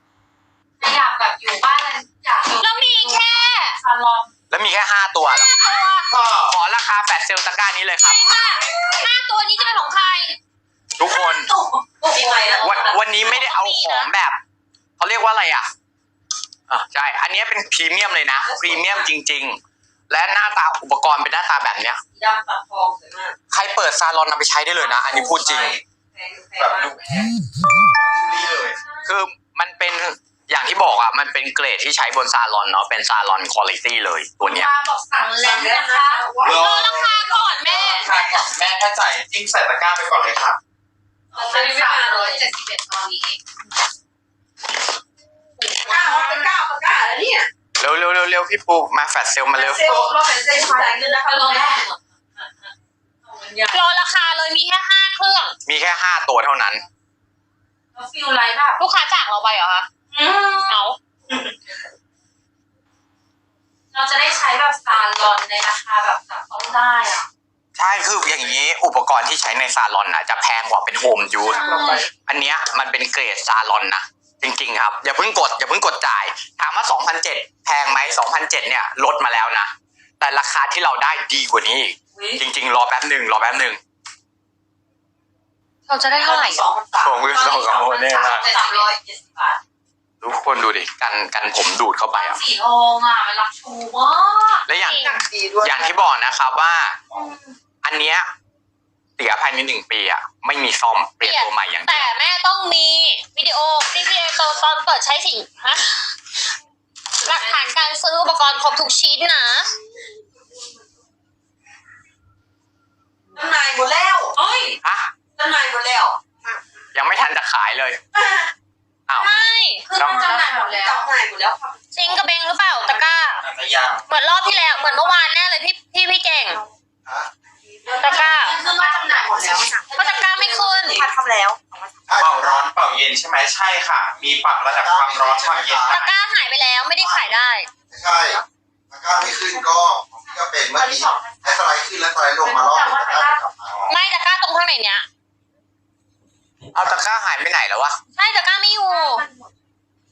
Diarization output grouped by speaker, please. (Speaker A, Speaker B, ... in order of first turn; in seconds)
Speaker A: 0.8-4.3, 8.3-8.7, 9.6-9.9, 11.0-12.9, 34.4-36.4, 41.3-43.4, 45.6-46.6, 50.0-52.5, 53.2-53.9, 57.9-58.8, 60.1-61.5, 63.9-67.3, 71.4-72.1, 85.9-86.7, 88.0-88.9, 92.1-94.7, 97.2-97.5, 107.2-107.6, 114.4-114.8, 119.2-121.1, 124.7-125.1, 127.9-129.9, 140.7-141.6, 142.4-143.5, 148.8-149.5
Speaker B: 2.6-3.8, 5.6-6.1, 8.1-10.4, 13.2-14.1, 36.5-38.1, 53.7-55.6, 58.8-59.9, 60.7-61.0, 94.8-95.2, 101.2-106.2, 107.2-109.7, 119.2-119.9, 121.9-123.4, 124.1-126.6, 128.0-128.6, 129.9-131.0, 135.9-137.7, 143.9-145.1, 148.2-149.3
Speaker C: 4.5-5.8, 6.5-8.4, 11.0-11.5, 12.6-14.4, 15.0-15.7, 16.7-19.6, 20.1-22.0, 23.5-25.8, 29.1-34.7, 47.8-50.0, 55.7-56.9, 67.8-83.8, 87.0-88.5, 90.2-92.4, 94.7-97.0, 97.8-98.3, 99.2-102.1, 114.8-115.1, 116.9-118.0, 120.0-120.2, 146.7-148.0
Speaker D: 6.1-6.5, 25.5-25.8, 26.6-27.2, 28.1-28.8, 36.4-40.6, 71.6-72.0, 123.4-124.0, 132.2-136.1
Speaker E: 12.1-13.3, 18.4-19.1, 22.1-23.4, 24.8-27.3, 35.4-37.0, 38.0-38.5, 41.4-42.5, 45.8-47.5, 49.5-51.9, 86.1-89.6, 94.9-96.1, 113.3-114.4, 115.4-116.2, 118.2-118.5, 120.0-121.8, 127.7-132.1
Speaker F: 134.9-135.8, 137.9-138.4, 138.9-140.9, 141.5-142.9